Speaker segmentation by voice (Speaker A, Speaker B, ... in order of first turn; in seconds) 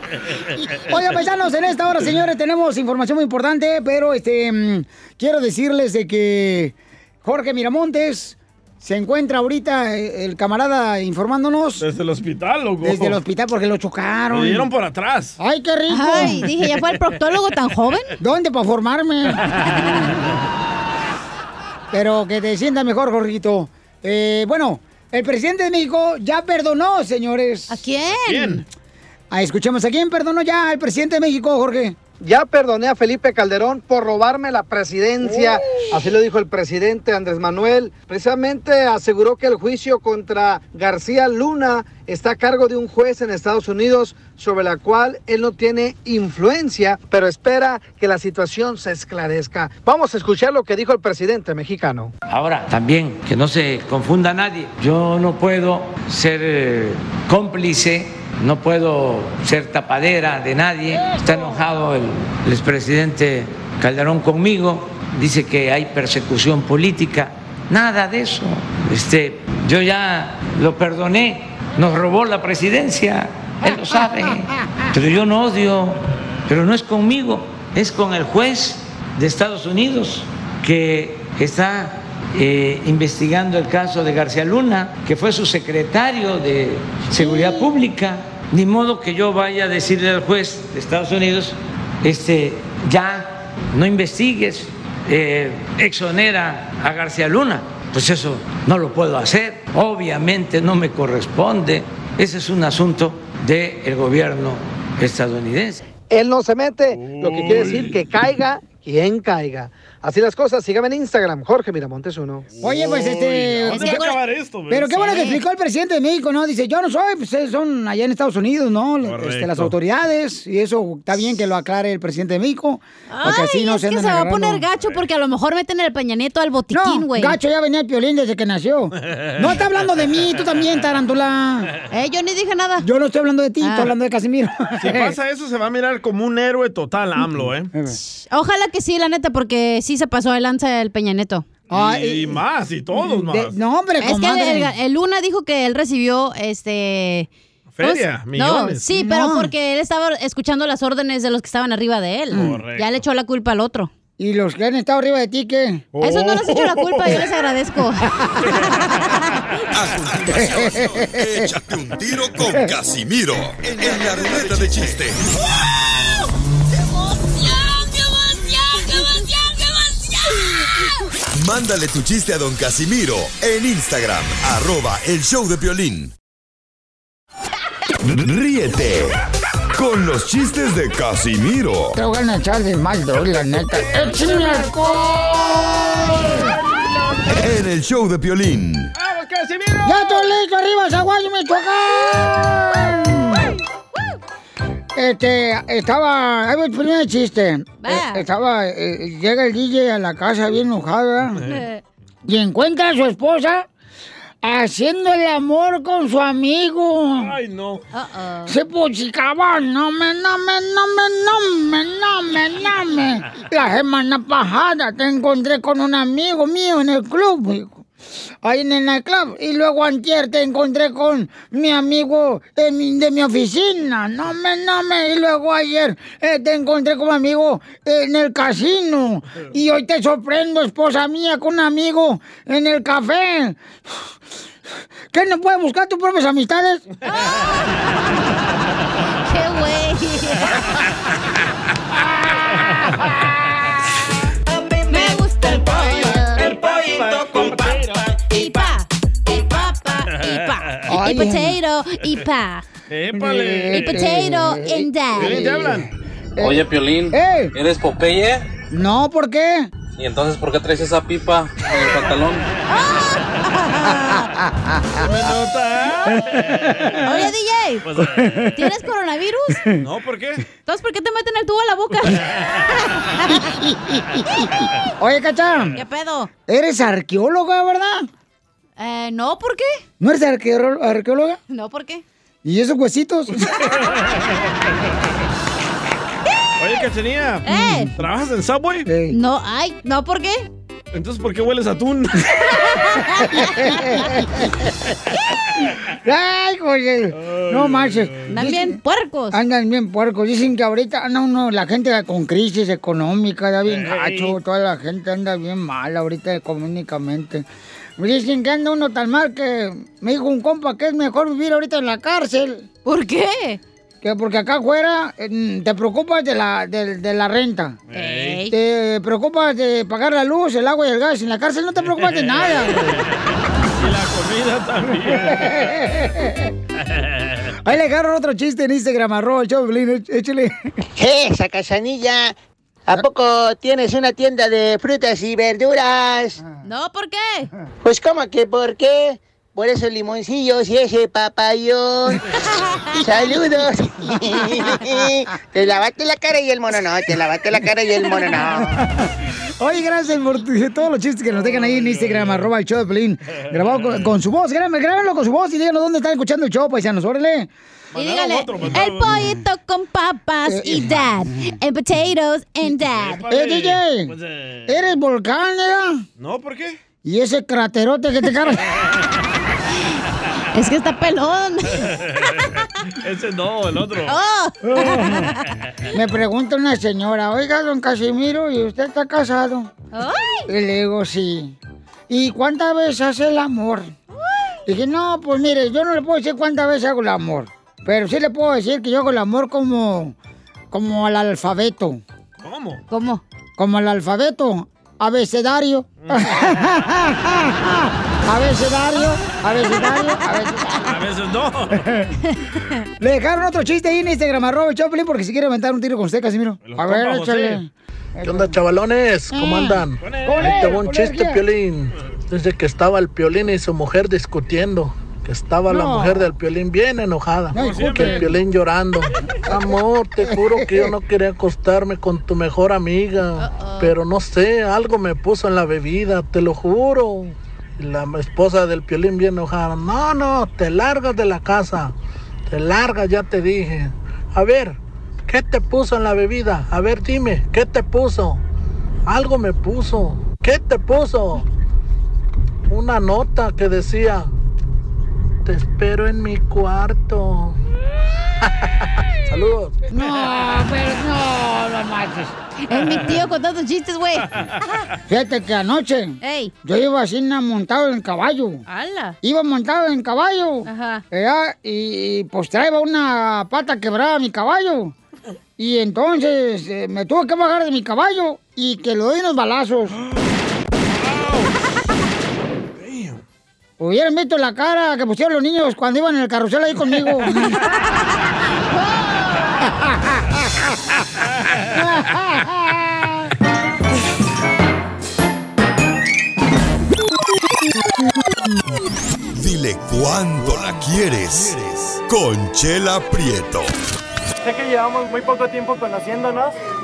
Speaker A: 0.9-11.8, 12.8-14.7, 15.4-16.4, 18.2-19.5, 21.9-27.8, 29.3-31.9, 35.2-35.5, 112.6-114.2, 114.7-124.6, 126.7-131.7, 132.8-135.2, 141.7-142.4, 142.9-144.7, 148.9-149.5, 152.3-152.6, 154.2-155.8, 160.3-161.4, 181.9-186.5, 189.8-193.5, 194.9-201.5, 202.3-203.7, 204.4-207.3, 208.4-217.8, 218.4-233.6, 235.1-236.8, 250.9-251.6, 253.1-257.5, 258.7-259.7, 266.3-267.2, 275.0-275.8, 276.5-278.1, 280.0-281.4, 282.4-283.6, 287.5-287.9, 288.9-289.2, 293.2-294.5, 296.1-298.8, 299.3-307.4, 308.0-312.6, 314.0-317.8, 318.5-323.1, 325.3-326.5, 327.6-330.7, 348.6-349.1, 349.6-357.5, 360.4-361.1, 363.3-364.1, 364.7-366.0, 367.0-368.7, 375.9-379.7, 380.5-381.6, 382.1-383.9, 384.7-390.1, 390.7-392.0, 393.6-400.9, 403.0-408.6, 409.3-411.4, 415.7-416.3, 417.5-418.3, 420.2-420.9, 449.9-452.3, 455.1-458.6, 459.2-464.9, 465.6-470.0, 473.8-477.6, 479.8-480.4, 481.8-483.1
Speaker B: 11.8-13.2, 14.3-15.4, 28.2-28.6, 107.0-108.0, 112.6-115.2, 119.0-119.7, 129.1-129.6, 134.8-137.7, 141.7-143.6, 147.8-148.9, 152.3-153.0, 155.9-157.1, 186.3-187.1, 188.9-190.3, 207.2-207.8, 245.6-248.7, 250.1-250.5, 252.9-254.1, 255.2-255.9, 265.0-267.0, 267.9-268.5, 269.8-270.4, 286.6-288.9, 290.9-292.3, 297.2-298.3, 303.7-304.4, 317.9-318.5, 321.9-323.1, 323.8-325.6, 326.9-327.4, 351.3-352.4, 353.5-354.1, 357.9-359.2, 362.9-364.7, 366.2-366.8, 371.9-374.2, 392.4-392.8, 396.0-396.3, 400.8-401.9, 406.6-407.6, 410.0-410.7, 417.6-418.2, 471.0-471.5, 472.7-473.2
Speaker C: 15.9-18.2, 27.7-28.6, 113.7-114.1, 114.9-115.4, 123.1-127.4, 131.9-132.9, 133.6-133.9, 138.0-141.5, 144.0-147.3, 147.8-153.9, 156.0-159.0, 197.8-198.2, 201.5-201.8, 207.9-208.6, 237.1-237.8, 239.2-240.6, 244.9-246.5, 248.3-252.6, 253.7-255.7, 262.7-264.3, 267.0-267.9, 268.6-269.6, 270.7-273.4, 275.8-276.3, 278.8-279.8, 281.5-282.0, 287.4-287.9, 289.1-290.4, 292.5-293.7, 298.3-299.4, 312.9-313.6, 317.9-318.5, 336.6-337.5, 357.9-363.2, 370.5-371.9, 374.1-375.4, 379.9-380.5, 392.9-393.2, 423.4-423.9, 452.7-454.3, 456.2-456.5, 458.7-459.2, 460.7-461.0, 478.7-479.6
Speaker D: 32.2-52.1, 106.1-112.5
Speaker E: 52.3-105.8
Speaker F: 159.7-165.2, 171.3-176.1, 178.0-179.2, 179.7-182.0, 187.3-188.9, 489.4-493.7
Speaker G: 256.4-258.4, 260.0-262.4
Speaker H: 331.0-332.4, 332.9-336.4, 337.8-342.2, 343.0-348.8
Speaker I: 408.2-431.9, 432.5-438.4, 439.1-441.4, 442.7-444.3, 445.4-447.6, 449.3-449.9
Speaker J: 494.4-496.6